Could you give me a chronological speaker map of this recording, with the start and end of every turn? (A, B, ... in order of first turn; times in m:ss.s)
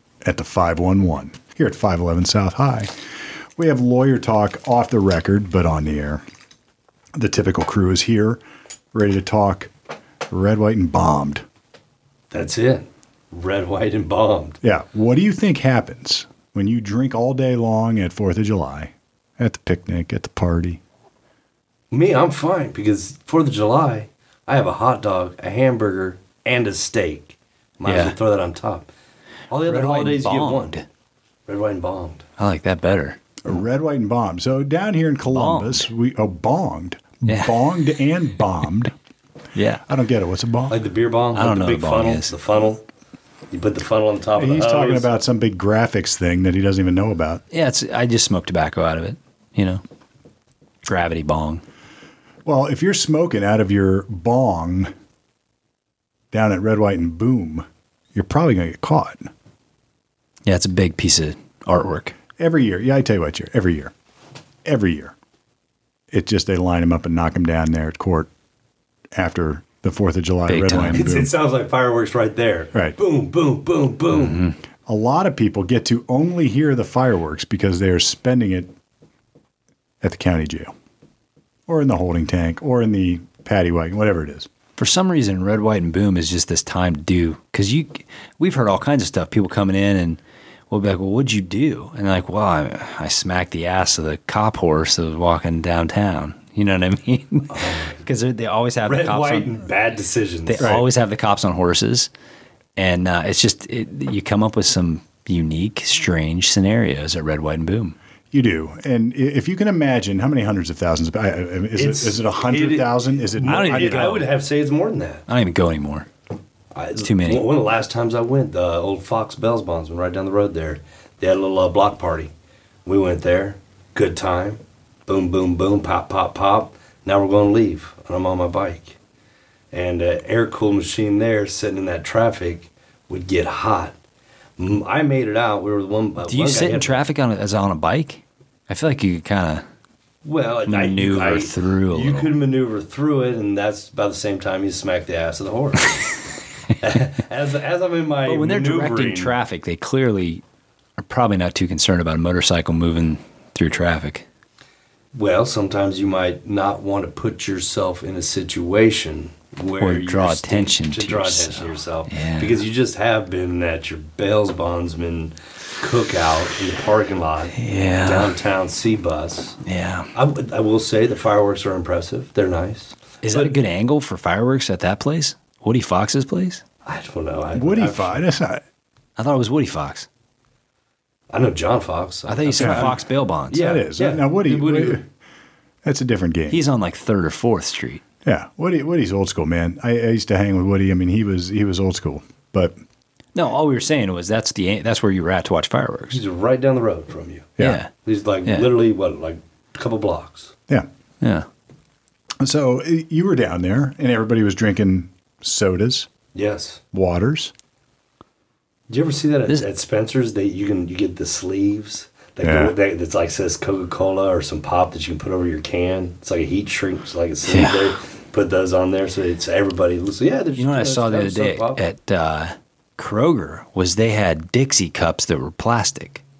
0:00.2-0:02.9 A
0:03.6-0:06.2 A
0:07.1-0:08.4 A
0:08.9-0:09.7 A
0:10.3-0:11.4 A
0:12.3-0:14.6 B
0:14.6-0:20.8 A
0:21.9-0:28.9 B
0:27.8-0:28.2 C
0:29.5-0:30.8 B
0:29.6-0:30.8 C
0:31.5-0:32.2 B
0:32.4-0:33.2 C
0:33.4-0:38.9 A
0:35.3-0:35.9 C
0:37.2-0:37.6 C
0:39.5-0:39.8 C
0:39.8-0:40.8 A
0:40.7-0:42.8 B
0:41.3-0:42.3 C
0:43.5-0:45.1 B
0:44.4-0:47.4 A
0:47.5-0:49.8 C
0:50.8-0:51.6 C
0:52.4-0:54.9 A
0:56.3-0:59.3 A
1:00.4-1:02.2 C
1:02.4-1:03.9 A
1:04.6-1:05.1 A
1:06.1-1:08.3 A
1:09.1-1:11.3 A
1:10.5-1:11.0 C
1:10.9-1:14.4 B
1:14.1-1:14.6 C
1:14.8-1:18.7 A
1:20.0-1:20.7 A
1:21.7-1:24.5 A
1:24.8-1:39.5 C
1:37.5-1:38.0 B
1:38.8-1:40.7 B
1:40.4-1:42.1 C
1:40.6-1:40.8 A
1:42.8-1:48.0 C
1:48.3-1:54.2 A
1:51.7-1:55.2 B
1:53.4-1:54.3 C
1:55.3-1:56.1 C
1:56.7-2:02.3 B
1:57.0-1:57.4 C
2:02.8-2:09.0 B
2:09.7-2:13.9 B
2:14.6-2:17.0 B
2:16.3-2:19.6 C
2:20.2-2:26.2 B
2:20.6-2:22.3 C
2:26.8-2:29.3 B
2:28.2-2:30.4 C
2:31.0-2:34.2 C
2:35.1-2:49.6 B
2:39.8-2:42.6 C
2:47.6-2:48.3 C
2:49.6-2:50.1 C
2:50.1-2:53.6 B
2:53.2-2:56.6 C
2:56.8-2:58.2 B
2:57.5-2:58.6 A
2:59.2-3:00.1 C
3:01.3-3:05.0 B
3:02.3-3:03.6 C
3:02.6-3:02.9 A
3:03.5-3:05.0 A
3:05.8-3:06.6 A
3:06.5-3:08.0 C
3:08.2-3:12.7 A
3:13.3-3:16.2 C
3:16.1-3:20.5 B
3:17.6-3:17.9 C
3:18.4-3:18.7 C
3:21.2-3:21.5 C
3:22.4-3:26.1 A
3:26.3-3:26.8 B
3:26.9-3:27.5 A
3:28.9-3:41.8 B
3:32.4-3:32.8 A
3:37.5-3:37.9 C
3:40.6-3:46.2 C